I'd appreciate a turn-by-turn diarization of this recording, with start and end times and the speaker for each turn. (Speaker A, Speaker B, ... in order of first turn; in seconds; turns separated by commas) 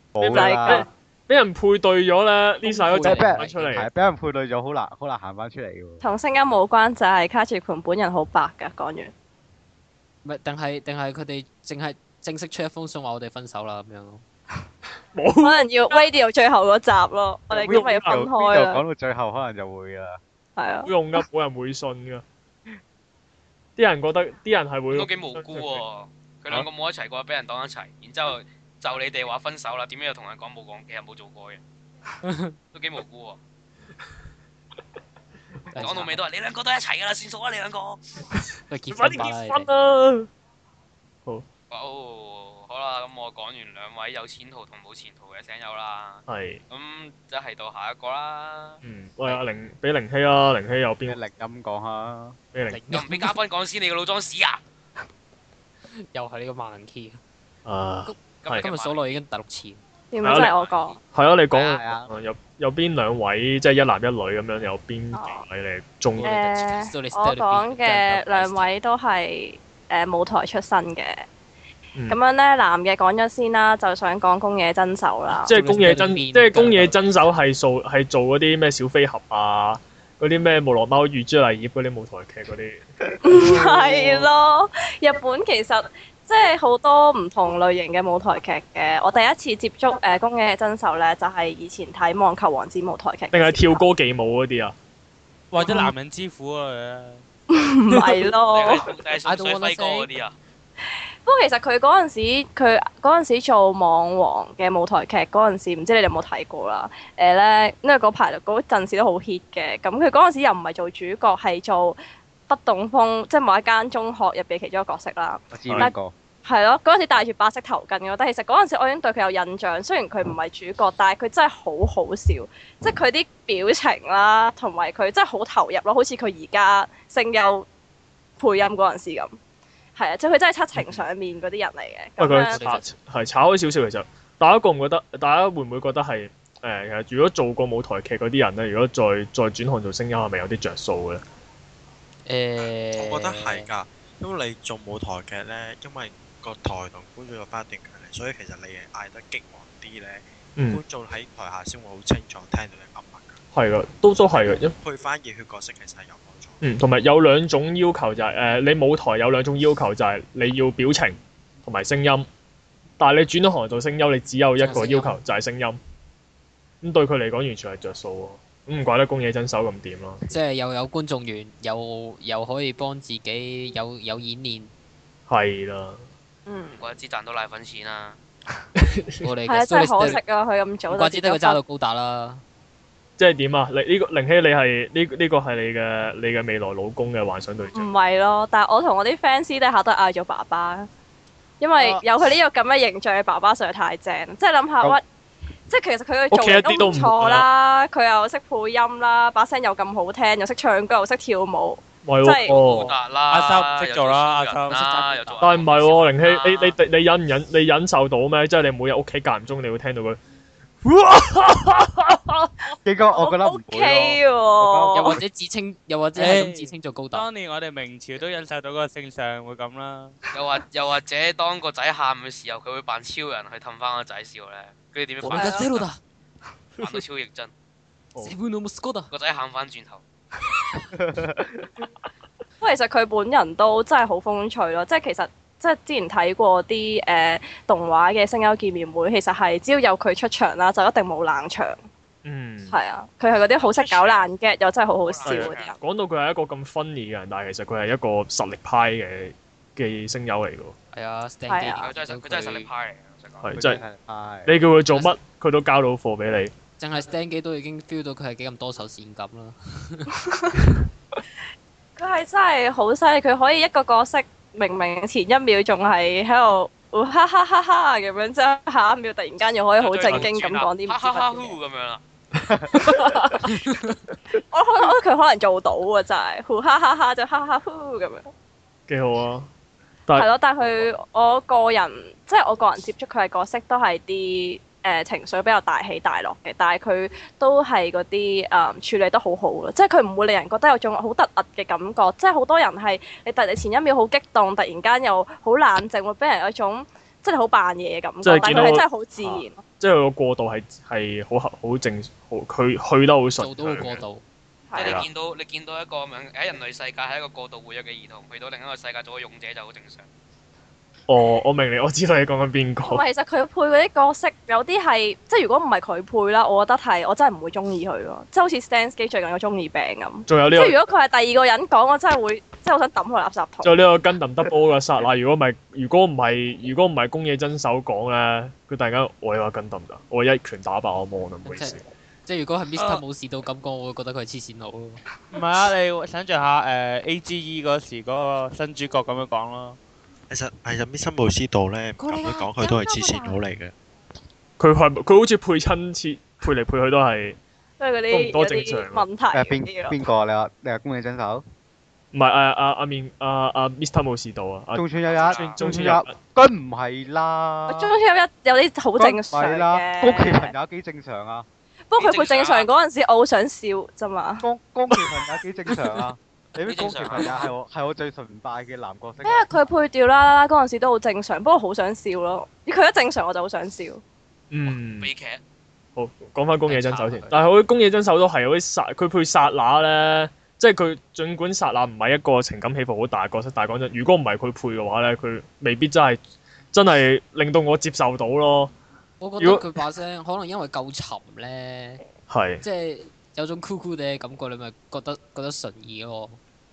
Speaker A: 0.1-0.9, Speaker B: 0.2-3.9, Speaker C: 0.2-0.9, Speaker D: 2.6-3.6, Speaker A: 3.0-6.0, Speaker C: 6.0-9.1, Speaker D: 10.2-14.2, Speaker B: 15.2-15.6, Speaker C: 15.4-18.8, Speaker A: 17.5-20.2, Speaker B: 17.6-18.3, Speaker C: 20.6-20.9, Speaker B: 20.9-22.2, Speaker B: 23.8-25.8, Speaker E: 24.9-31.6, Speaker D: 32.2-32.6, Speaker E: 32.7-33.4, Speaker D: 35.7-36.2, Speaker E: 35.8-38.0, Speaker D: 38.7-39.7, Speaker B: 38.9-40.3, Speaker E: 41.7-48.8, Speaker B: 46.3-46.6, Speaker B: 48.8-51.2, Speaker A: 51.0-52.4, Speaker B: 52.5-52.8, Speaker D: 52.7-53.4, Speaker E: 52.9-54.6, Speaker D: 56.1-57.2, Speaker B: 57.7-58.7, Speaker D: 58.0-59.8, Speaker E: 58.4-59.2, Speaker C: 60.1-61.0, Speaker B: 60.2-60.5, Speaker E: 60.3-61.0, Speaker B: 61.1-66.3, Speaker A: 61.5-62.1, Speaker C: 65.1-65.5, Speaker D: 66.2-68.7, Speaker C: 66.2-71.2, Speaker C: 72.1-75.5, Speaker B: 75.4-84.3, Speaker D: 75.5-77.1, Speaker C: 83.2-93.8, Speaker B: 93.3-94.7, Speaker F: 95.5-97.2, Speaker C: 95.6-95.9, Speaker C: 97.5-98.9, Speaker B: 97.9-98.2, Speaker E: 98.5-100.4, Speaker D: 99.2-100.1, Speaker C: 101.2-112.0, Speaker C: 112.5-127.7, Speaker A: 115.5-116.1, Speaker C: 128.4-129.4, Speaker C: 130.0-132.6, Speaker B: 130.8-131.1, Speaker B: 132.2-141.2, Speaker D: 132.4-132.9, Speaker D: 142.3-143.7, Speaker G: 143.0-153.4, Speaker B: 153.5-154.8, Speaker G: 154.2-156.6, Speaker B: 156.6-162.3, Speaker B: 163.0-165.8, Speaker D: 164.6-165.2, Speaker B: 166.8-170.2, Speaker D: 170.3-174.7, Speaker B: 175.3-176.0, Speaker C: 176.5-176.9, Speaker E: 176.8-178.2, Speaker B: 178.8-179.2, Speaker D: 179.2-180.2, Speaker C: 179.5-181.6, Speaker D: 180.9-182.4, Speaker B: 183.2-187.9, Speaker C: 187.7-190.9, Speaker C: 191.6-195.0, Speaker A: 191.8-192.0, Speaker C: 195.7-202.7, Speaker B: 196.3-197.5, Speaker B: 202.0-202.9, Speaker E: 202.5-206.8, Speaker F: 203.3-204.8, Speaker D: 204.7-205.5, Speaker B: 205.4-210.2, Speaker B: 210.8-212.5, Speaker A: 212.8-215.2, Speaker C: 213.1-215.2, Speaker D: 214.9-217.3, Speaker F: 216.2-220.2, Speaker E: 220.3-225.8, Speaker D: 225.2-226.0, Speaker C: 225.3-225.7, Speaker E: 226.8-227.5, Speaker D: 228.2-229.1, Speaker E: 229.1-230.0, Speaker A: 230.9-231.7, Speaker C: 232.6-241.8, Speaker B: 242.2-242.8, Speaker C: 242.7-245.8, Speaker E: 243.6-244.3, Speaker E: 245.0-245.8, Speaker B: 245.3-250.8, Speaker D: 250.9-252.7, Speaker C: 251.5-251.9, Speaker E: 251.8-253.5, Speaker B: 253.4-253.8, Speaker A: 253.5-254.6, Speaker B: 254.5-256.5, Speaker D: 254.9-255.2, Speaker D: 256.8-260.2, Speaker C: 260.2-260.6, Speaker C: 262.0-271.6, Speaker E: 269.8-272.0, Speaker A: 272.5-273.2, Speaker B: 272.5-273.6, Speaker C: 274.5-278.3, Speaker B: 278.9-279.5, Speaker C: 280.1-299.6, Speaker B: 298.2-304.0, Speaker D: 303.4-304.2, Speaker C: 304.7-305.1, Speaker E: 304.8-310.1, Speaker B: 304.8-305.1, Speaker B: 311.1-313.0, Speaker C: 312.8-323.8, Speaker B: 320.3-320.8, Speaker B: 323.6-331.8, Speaker D: 331.4-335.0, Speaker F: 335.3-339.8, Speaker G: 340.3-343.7, Speaker D: 342.0-343.2, Speaker C: 342.6-343.3, Speaker B: 344.6-347.4, Speaker C: 347.8-350.0, Speaker B: 348.1-349.1, Speaker A: 349.3-351.4, Speaker B: 352.1-356.1, Speaker A: 354.8-357.9, Speaker E: 355.1-355.6, Speaker C: 357.7-360.5, Speaker A: 359.0-361.5, Speaker C: 361.9-364.5, Speaker E: 362.0-362.7, Speaker A: 364.4-369.5, Speaker E: 366.6-367.5, Speaker C: 369.2-374.0, Speaker B: 374.5-375.1, Speaker E: 374.7-375.4, Speaker B: 376.0-386.2, Speaker D: 376.7-377.3, Speaker B: 386.7-388.7, Speaker D: 389.2-392.0, Speaker B: 389.4-389.7, Speaker B: 392.3-392.6, Speaker D: 392.6-396.4